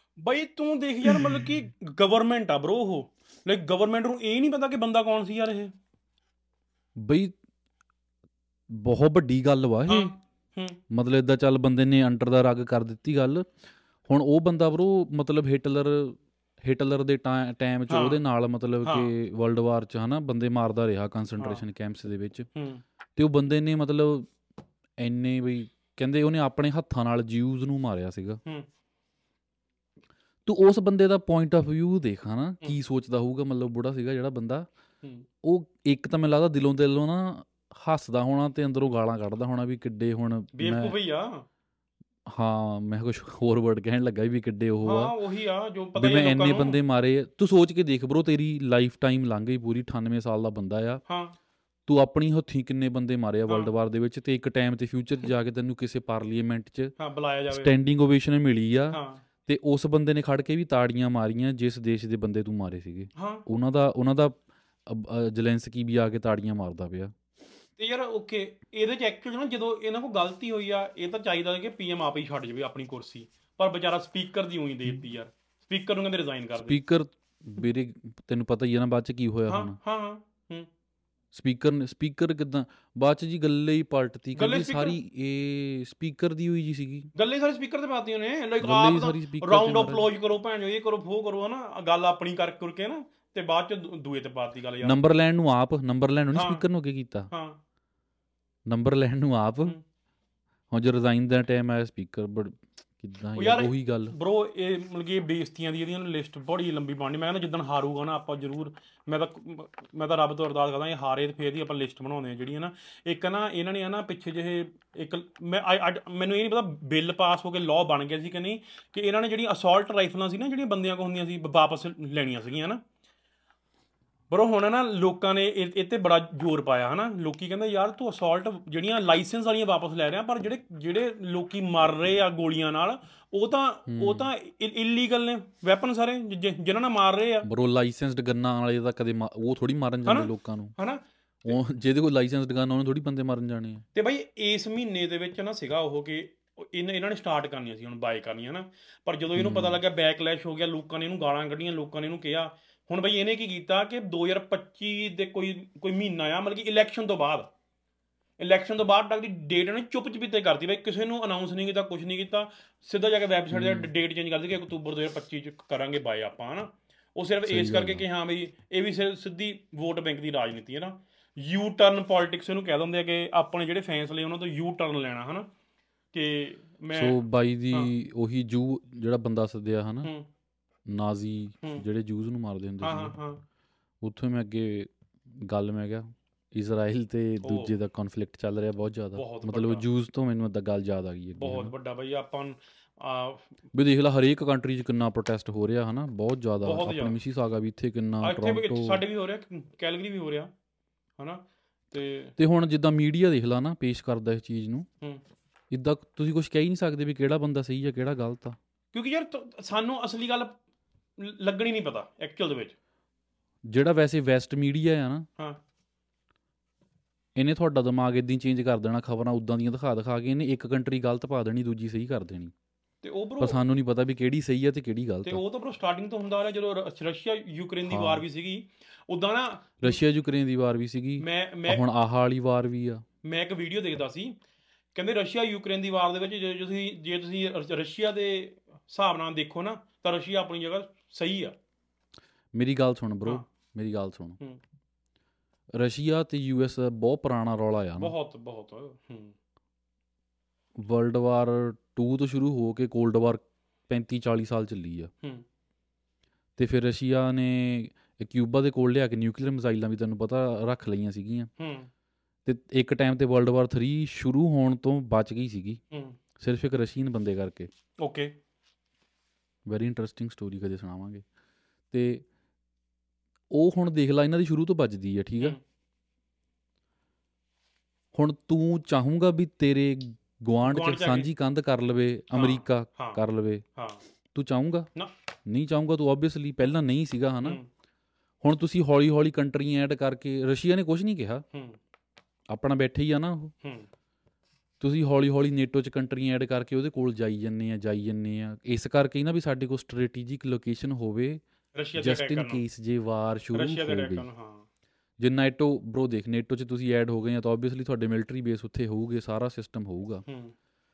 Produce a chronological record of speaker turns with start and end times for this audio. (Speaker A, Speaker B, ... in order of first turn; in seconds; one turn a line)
Speaker A: 0.2-5.7
Speaker B: 1.1-1.5
Speaker B: 7.0-7.3
Speaker B: 8.7-10.1
Speaker A: 9.9-10.8
Speaker B: 10.9-13.5
Speaker B: 14.1-22.5
Speaker A: 17.9-18.2
Speaker A: 18.8-19.1
Speaker A: 21.4-21.6
Speaker A: 22.6-22.8
Speaker B: 23.1-24.3
Speaker B: 25.0-28.4
Speaker B: 30.4-34.7
Speaker B: 35.4-41.0
Speaker A: 40.5-41.5
Speaker B: 42.3-45.1
Speaker A: 44.8-46.8
Speaker B: 46.0-51.0
Speaker A: 51.1-51.3
Speaker B: 51.9-56.9
Speaker A: 57.0-57.7
Speaker B: 57.5-67.1
Speaker A: 58.9-59.2
Speaker A: 63.1-63.4
Speaker A: 67.8-76.8
Speaker B: 76.5-79.8
Speaker A: 79.5-80.7
Speaker B: 81.3-87.1
Speaker A: 84.3-85.0
Speaker A: 87.2-95.0
Speaker B: 88.6-90.0
Speaker B: 94.8-97.3
Speaker A: 96.3-96.6
Speaker A: 97.3-97.6
Speaker B: 98.7-99.8
Speaker B: 100.7-104.1
Speaker A: 103.3-122.8
Speaker A: 124.3-137.5
Speaker B: 133.9-134.3
Speaker B: 137.4-140.7
Speaker A: 140.0-141.5
Speaker B: 141.4-143.8
Speaker A: 143.9-157.5
Speaker B: 149.3-149.8
Speaker A: 158.4-175.5
Speaker B: 163.5-163.9
Speaker B: 167.4-168.0
Speaker A: 176.1-177.2
Speaker B: 176.9-180.1
Speaker B: 180.9-183.1
Speaker A: 182.8-183.4
Speaker B: 184.0-191.7
Speaker A: 187.4-187.7
Speaker A: 189.1-189.8
Speaker A: 191.4-193.4
Speaker B: 193.7-199.0
Speaker A: 196.6-197.2
Speaker A: 198.2-200.5
Speaker A: 201.2-202.3
Speaker B: 202.4-204.9
Speaker B: 205.7-208.6
Speaker A: 208.9-210.5
Speaker A: 211.2-212.7
Speaker B: 213.7-215.2
Speaker B: 217.3-222.5
Speaker A: 223.0-223.6
Speaker B: 223.4-225.4
Speaker A: 225.2-230.0
Speaker B: 227.9-228.2
Speaker B: 229.8-233.0
Speaker A: 231.2-231.8
Speaker A: 233.2-234.3
Speaker A: 234.9-241.6
Speaker B: 242.5-244.4
Speaker B: 245.7-248.1
Speaker A: 248.0-249.3
Speaker B: 250.8-255.1
Speaker B: 256.6-261.5
Speaker A: 261.6-261.9
Speaker B: 262.4-265.8
Speaker A: 265.9-266.2
Speaker B: 266.4-267.7
Speaker A: 268.0-268.3
Speaker B: 269.6-271.2
Speaker B: 271.9-272.2
Speaker B: 273.5-275.6
Speaker B: 278.1-283.6
Speaker A: 280.6-281.3
Speaker A: 282.3-283.2
Speaker A: 283.8-284.0
Speaker B: 284.3-284.9
Speaker B: 285.5-287.6
Speaker B: 288.4-291.4
Speaker B: 292.5-293.5
Speaker B: 294.8-301.4
Speaker A: 301.7-302.6
Speaker B: 301.9-304.2
Speaker A: 303.5-304.6
Speaker B: 305.2-310.2
Speaker A: 310.3-310.5